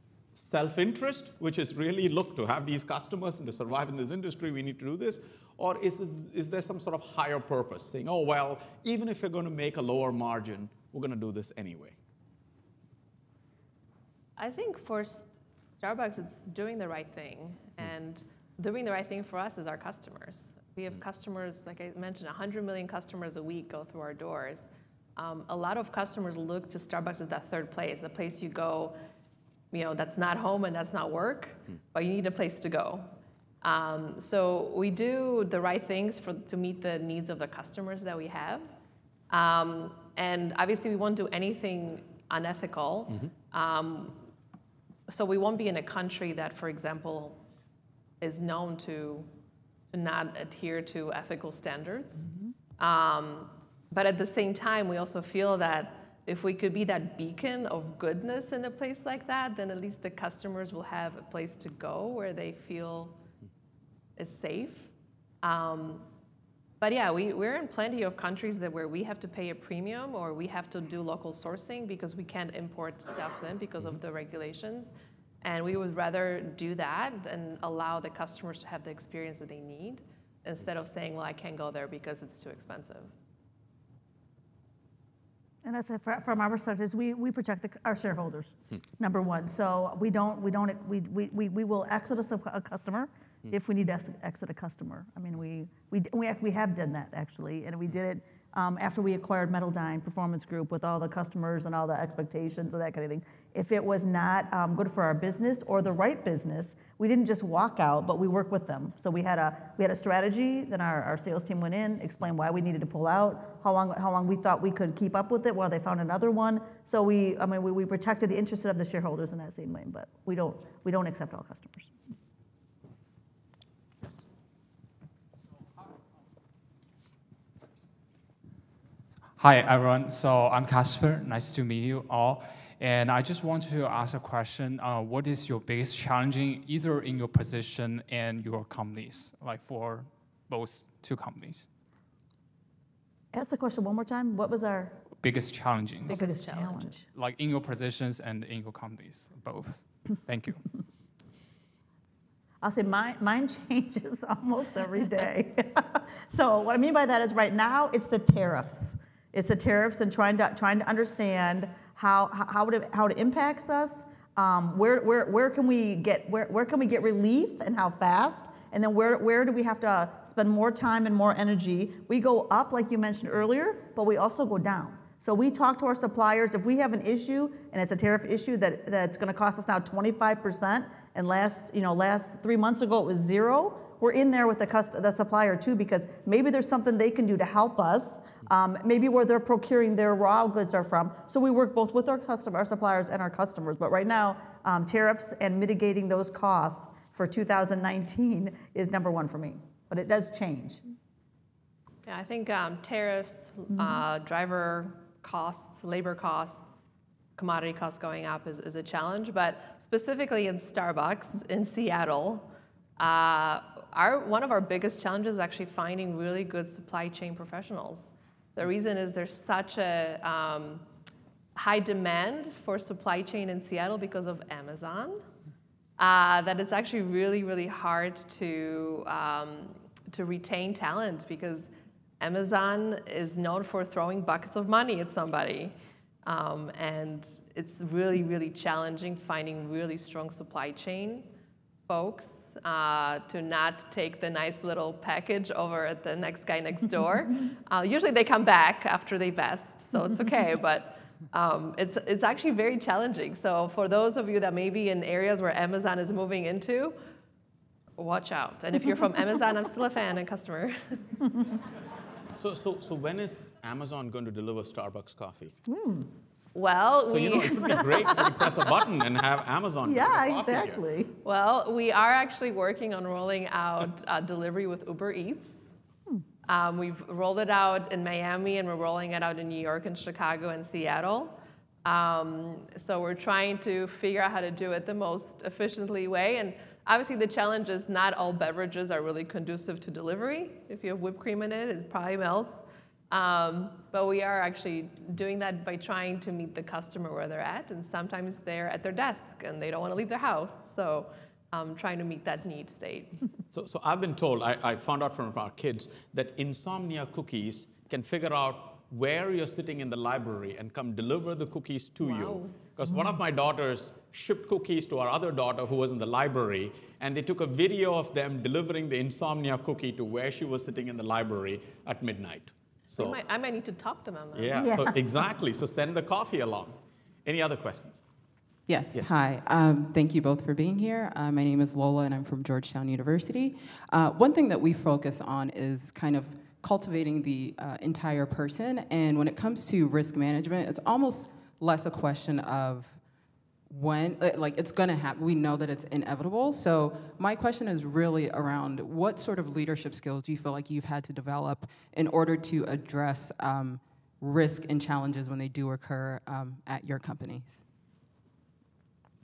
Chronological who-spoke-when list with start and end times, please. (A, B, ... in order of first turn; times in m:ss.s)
0:00.3-0:12.0 A
0:14.4-0:28.9 B
0:29.7-0:33.1 B
0:33.6-0:38.6 B
0:39.3-0:44.2 B
0:45.1-0:47.4 B
0:48.2-0:49.3 B
0:49.9-0:52.2 B
0:52.8-1:03.2 B
1:04.2-1:06.0 B
1:06.8-1:14.9 B
1:15.4-1:23.1 B
1:25.6-2:01.9 C
2:09.4-2:21.7 D
2:23.3-2:25.0 C
2:25.2-2:26.2 D
2:26.1-2:26.9 B
2:26.1-2:27.0 C
2:27.1-2:30.6 D
2:32.6-3:20.8 C
3:22.0-3:26.6 B
3:23.7-3:24.0 C
3:27.4-3:32.5 B
3:33.0-3:40.8 B
3:41.6-3:45.2 B
3:46.0-3:51.7 B
3:52.2-3:55.7 B
3:56.2-4:01.3 B
4:01.9-4:17.0 B
4:18.0-4:21.0 B
4:22.3-4:25.6 A
4:25.7-4:26.1 C
4:26.5-4:28.3 B
4:27.0-4:30.8 A
4:29.8-4:31.1 C
4:31.2-4:35.7 B
4:36.4-5:03.2 B
5:03.5-5:23.2 A
5:12.0-5:12.5 B
5:22.9-5:24.7 B
5:24.4-5:28.0 A
5:24.6-5:25.0 C
5:28.7-5:43.0 E
5:43.7-5:57.6 E